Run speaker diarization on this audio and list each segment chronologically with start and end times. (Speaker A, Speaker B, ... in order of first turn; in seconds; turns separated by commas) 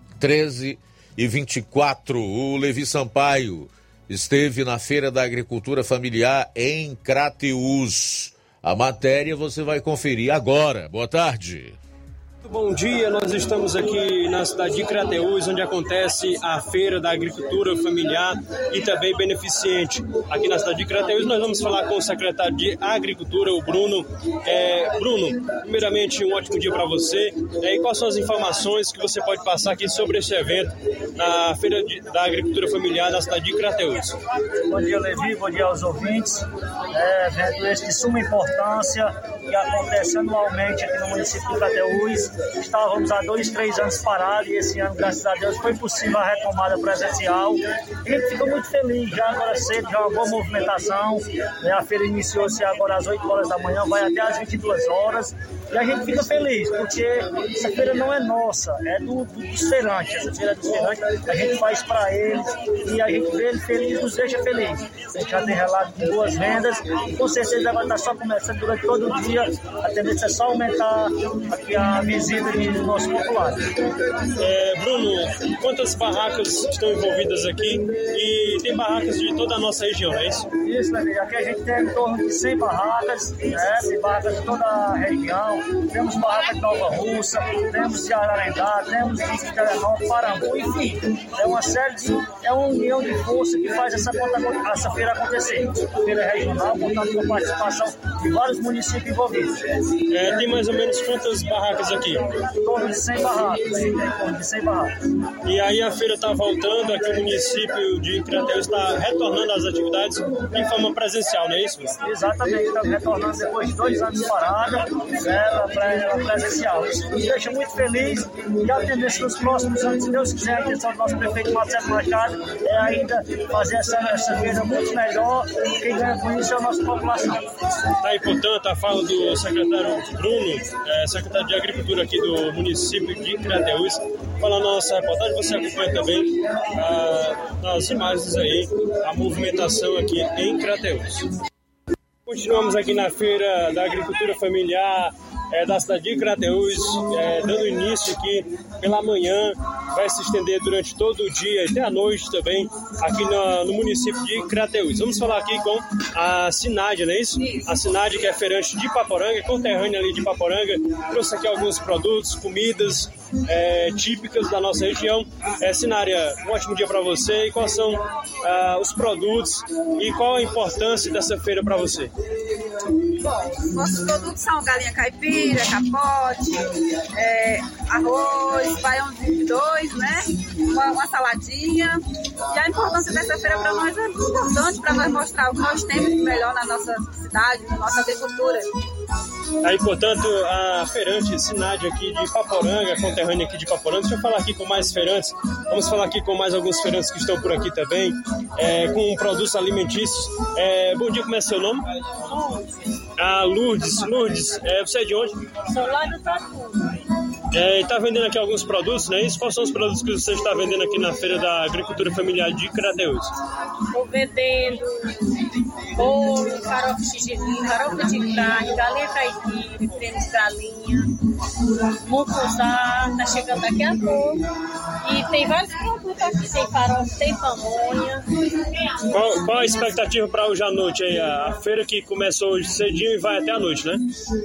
Speaker A: 0.2-11.8, Speaker B: 12.4-34.1, Speaker C: 34.7-73.6, Speaker B: 74.4-80.5, Speaker C: 80.6-99.5, Speaker B: 100.1-102.2, Speaker C: 102.6-104.9, Speaker B: 105.4-112.1, Speaker C: 112.0-127.4, Speaker B: 128.0-141.2, Speaker B: 142.3-172.1, Speaker D: 173.2-188.7, Speaker B: 189.6-201.8, Speaker B: 203.2-205.4, Speaker E: 205.7-206.8, Speaker B: 207.5-213.3, Speaker E: 213.9-215.1, Speaker E: 215.9-221.1, Speaker E: 222.1-224.4, Speaker E: 225.0-228.2, Speaker B: 229.1-234.0